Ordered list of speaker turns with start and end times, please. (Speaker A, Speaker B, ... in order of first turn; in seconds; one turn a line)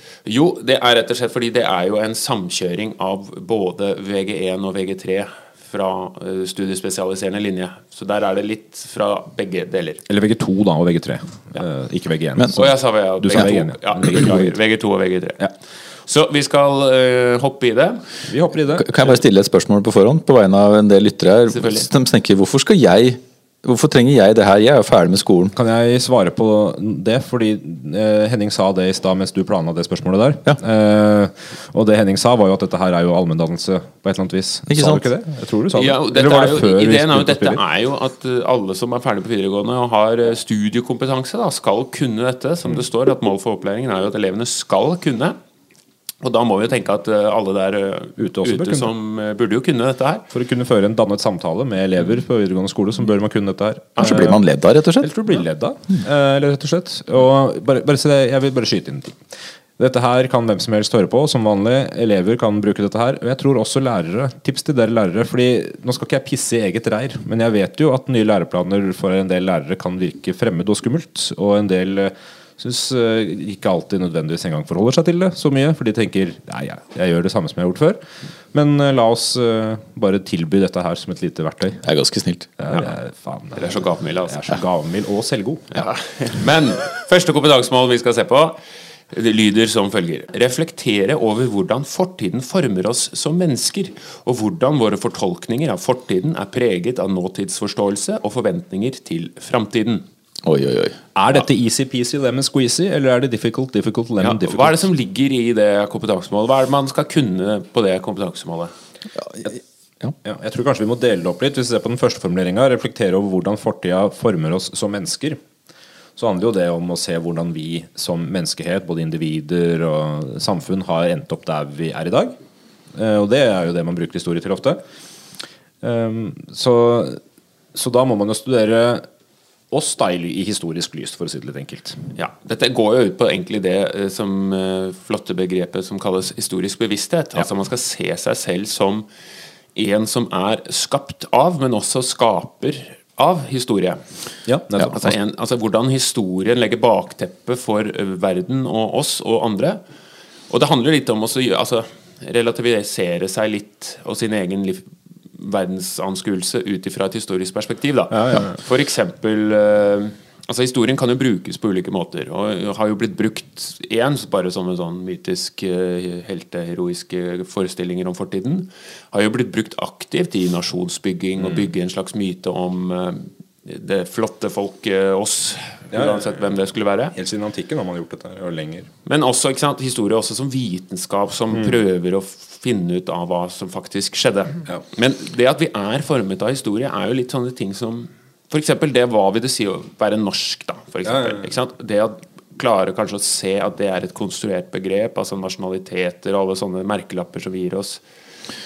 Speaker A: 0.2-10.0
Speaker B: 10.1-12.7
Speaker C: 12.3-12.7
Speaker A: 12.5-15.5
Speaker B: 13.2-14.5
Speaker A: 16.0-18.1
Speaker B: 18.2-19.0
Speaker C: 18.7-25.5
Speaker A: 21.5-21.9
Speaker B: 25.5-37.6
Speaker C: 34.7-35.0
Speaker A: 35.7-45.4
Speaker A: 46.2-50.3
Speaker B: 48.2-48.9
Speaker B: 50.3-54.4
Speaker C: 54.0-55.1
Speaker B: 55.0-59.2
Speaker B: 59.8-78.0
Speaker B: 78.5-81.8
Speaker C: 81.8-82.5
Speaker B: 82.6-83.8
Speaker A: 83.5-84.5
Speaker B: 84.3-85.7
Speaker A: 85.7-88.6
Speaker A: 89.1-100.0
Speaker C: 100.4-101.0
Speaker B: 101.2-104.8
Speaker A: 104.2-108.7
Speaker C: 109.2-109.5
Speaker B: 110.2-115.4
Speaker B: 116.2-122.3
Speaker B: 122.9-124.8
Speaker B: 125.8-127.2
Speaker B: 127.7-129.1
Speaker B: 129.7-132.0
Speaker A: 132.2-139.1
Speaker A: 139.7-144.0
Speaker B: 144.5-145.1
Speaker A: 144.9-149.8
Speaker A: 150.5-177.1
Speaker B: 158.1-158.6
Speaker B: 171.4-171.7
Speaker B: 175.9-176.3
Speaker B: 177.1-178.9
Speaker A: 179.1-198.0
Speaker B: 191.1-191.4